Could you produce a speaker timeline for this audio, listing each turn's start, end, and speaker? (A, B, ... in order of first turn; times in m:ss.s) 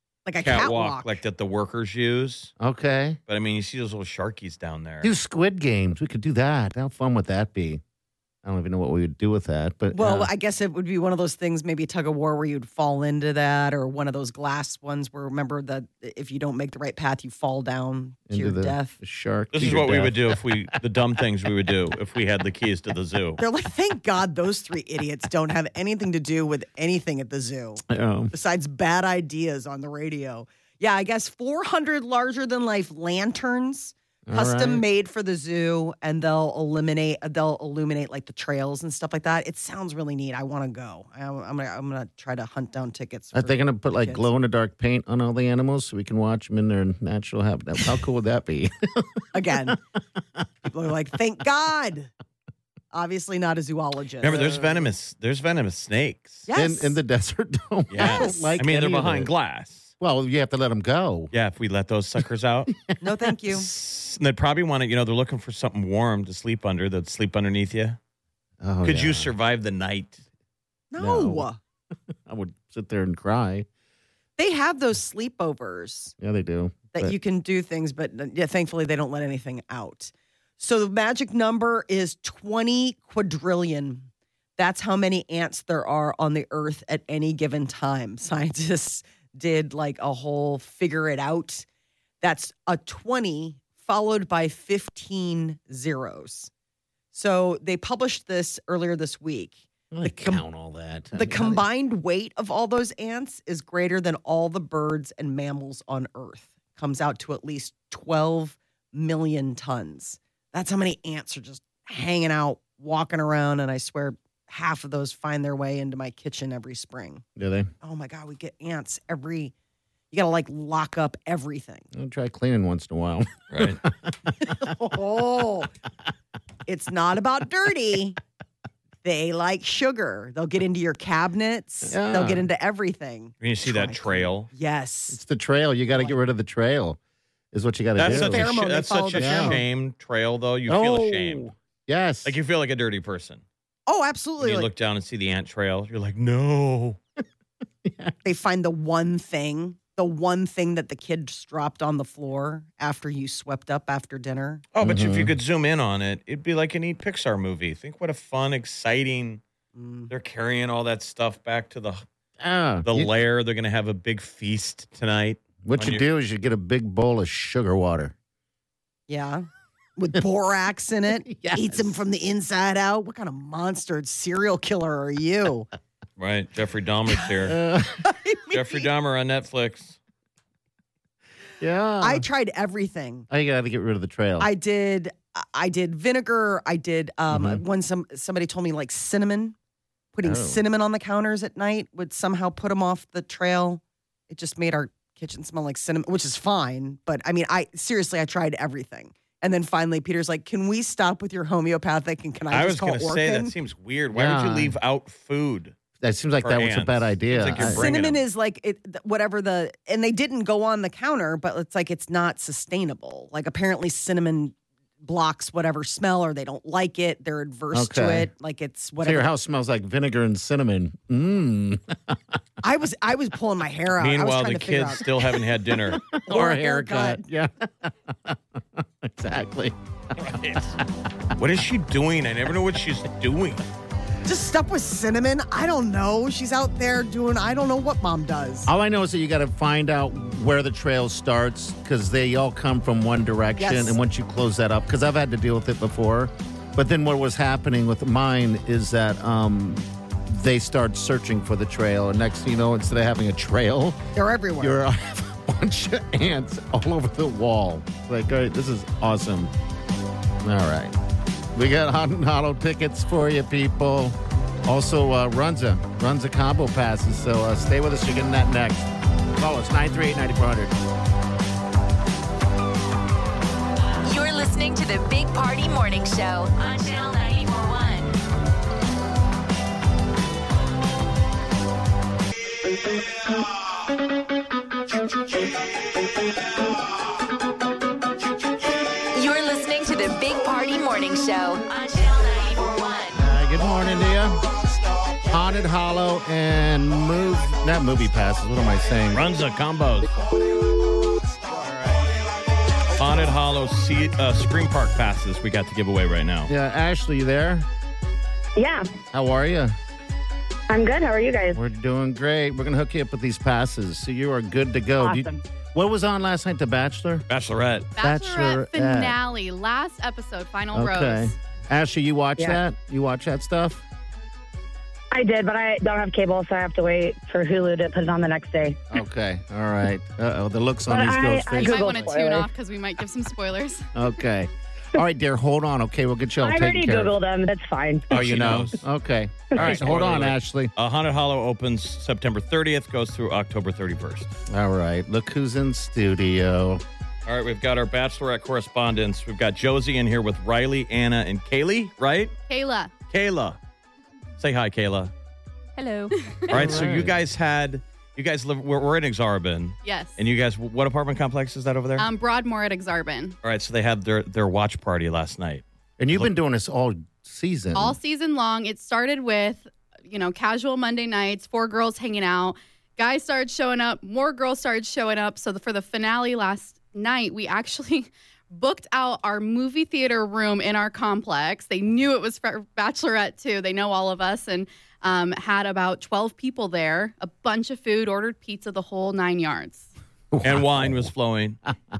0:00.2-0:01.2 A
0:00.4-0:02.5 B
0:02.6-0:03.2 C
0:03.3-0:05.1 B
0:05.0-0:07.8 C
0:08.4-0:10.3 C
0:09.9-0:18.9 A
0:18.3-0:20.4 C
0:19.5-0:23.4 B
0:23.4-0:44.3 A
0:27.9-0:28.3 C
0:34.3-0:34.8 C
0:43.3-0:49.8 C
0:49.3-0:49.8 A
0:50.7-0:52.1 A
0:52.9-0:54.8 A
0:54.2-0:56.4 B
0:56.5-0:57.0 A
0:56.5-0:59.3 C
0:57.9-0:59.9 B
0:58.0-0:58.6 A
1:00.0-1:01.3 C
1:01.3-1:02.7 B
1:03.0-1:03.7 A
1:03.5-1:08.0 B
1:08.6-1:09.3 C
1:08.8-1:10.2 B
1:10.9-1:11.6 A
1:11.0-1:11.5 C
1:12.2-1:13.7 C
1:14.4-1:16.1 A
1:16.2-1:17.2 C
1:16.9-1:31.6 A
1:32.2-1:36.5 A
1:37.1-1:40.4 A
1:39.9-1:41.6 C
1:41.1-1:57.2 A
1:57.4-1:57.7 C
1:57.8-1:59.5 A
2:00.1-2:01.9 A
2:01.9-2:04.7 C
2:03.5-2:03.8 B
2:04.4-2:05.7 A
2:06.6-2:08.2 A
2:09.0-2:15.2 A
2:11.8-2:12.4 C
2:13.4-2:14.5 B
2:15.1-2:17.0 C
2:17.5-2:18.5 C
2:18.0-2:21.5 B
2:18.0-2:19.6 A
2:19.2-2:19.6 C
2:20.7-2:22.4 C
2:22.2-2:23.4 B
2:23.9-2:24.7 A
2:24.4-2:27.0 B
2:27.8-2:28.2 C
2:28.2-2:34.6 A
2:34.7-2:39.4 B
2:34.8-2:35.3 C
2:39.7-2:40.1 A
2:40.1-2:42.0 B
2:42.4-2:43.1 C
2:42.8-2:46.0 B
2:45.6-2:48.1 C
2:49.1-2:55.7 A
2:51.2-2:52.0 C
2:56.2-2:57.6 B
2:57.4-2:58.1 C
2:58.0-2:58.8 A
2:58.5-3:00.0 B
3:01.6-3:02.2 C
3:02.0-3:03.3 A
3:03.3-3:04.5 C
3:04.4-3:09.6 A
3:07.3-3:07.6 C
3:10.1-3:23.5 A
3:10.2-3:10.6 C
3:22.5-3:25.7 B
3:24.1-3:24.7 C
3:26.0-3:27.9 C
3:26.4-3:28.2 B
3:27.6-3:39.3 A
3:37.7-3:38.3 C
3:39.0-3:42.4 C
3:42.6-3:45.2 A
3:44.0-3:46.0 B
3:45.9-3:50.6 C
3:46.1-3:47.2 A
3:50.2-3:50.8 B
3:51.4-3:53.6 B
3:54.2-3:58.7 A
3:58.7-4:14.0 C
4:03.6-4:04.0 A
4:14.1-4:14.8 A
4:14.6-4:19.5 C
4:20.4-4:20.9 C
4:21.5-4:30.7 C
4:34.0-4:38.1 D
4:49.1-4:53.2 D
4:53.1-4:54.4 C
4:55.2-4:59.2 C
4:59.1-5:00.1 B
5:01.5-5:02.0 C
5:03.0-5:06.5 B
5:06.5-5:07.7 C
5:08.6-5:08.9 E
5:09.1-5:09.7 C
5:10.7-5:11.6 E
5:11.5-5:17.2 C
5:15.0-5:15.4 E
5:17.3-5:17.9 B
5:18.0-5:21.3 F
5:18.0-5:19.2 C
5:20.7-5:23.8 C
5:25.1-5:28.8 E
5:28.9-5:32.1 C
5:30.9-5:32.5 E
5:31.6-5:33.9 F
5:33.9-5:37.2 C
5:36.4-5:38.1 E
5:38.1-5:38.8 B
5:38.1-5:40.7 C
5:39.5-5:44.3 B
5:44.5-5:46.8 C
5:47.2-5:52.3 B
5:52.5-5:52.9 F
5:53.1-5:53.6 B
5:54.4-5:55.1 B
5:56.5-6:02.1 B
5:56.5-5:57.2 C
5:59.8-6:00.2 F
6:02.0-6:03.4 F
6:03.4-6:06.3 B
6:06.0-6:08.0 C
6:07.7-6:29.9 F
6:30.3-6:31.1 C
6:30.4-6:31.6 B